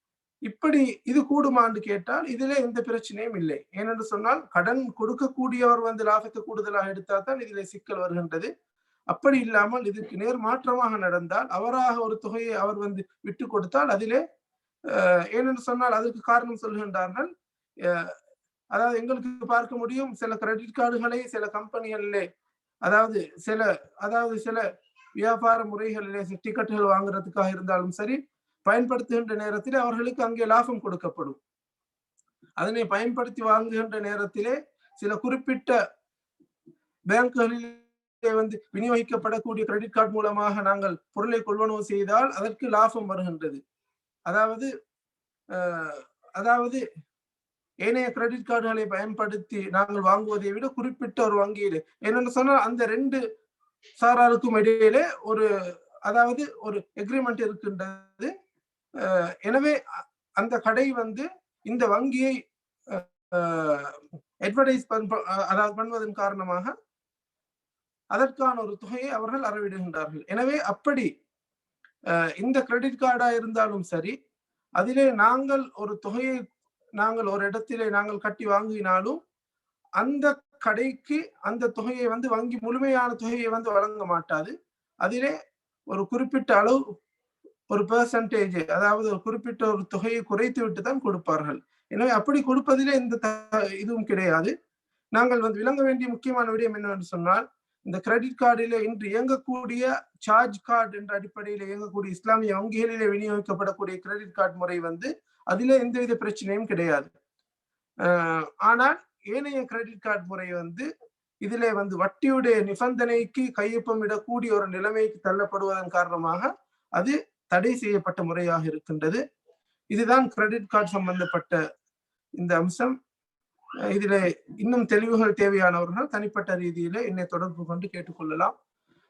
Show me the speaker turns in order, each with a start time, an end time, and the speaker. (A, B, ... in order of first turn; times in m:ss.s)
0:00.5-0:08.5 A
0:09.1-0:14.2 A
0:14.9-0:17.3 A
0:17.9-0:18.1 A
0:18.7-0:22.2 A
0:22.9-0:24.6 A
0:25.2-0:31.4 A
0:32.6-0:35.8 A
0:37.1-0:43.6 A
0:44.3-0:44.7 A
0:45.6-0:46.8 A
0:47.8-0:53.2 A
0:54.0-0:55.4 A
0:56.1-0:58.3 A
0:59.0-0:59.8 A
1:00.4-1:02.3 A
1:02.9-1:06.7 A
1:08.1-1:11.1 A
1:12.4-1:14.1 A
1:14.8-1:16.4 A
1:17.0-1:19.2 A
1:20.0-1:25.3 A
1:25.9-1:26.8 A
1:27.7-1:34.5 A
1:35.2-1:47.1 A
1:48.1-1:50.9 A
1:51.4-1:59.2 A
1:59.9-2:01.6 A
2:02.4-2:03.0 A
2:03.9-2:08.5 A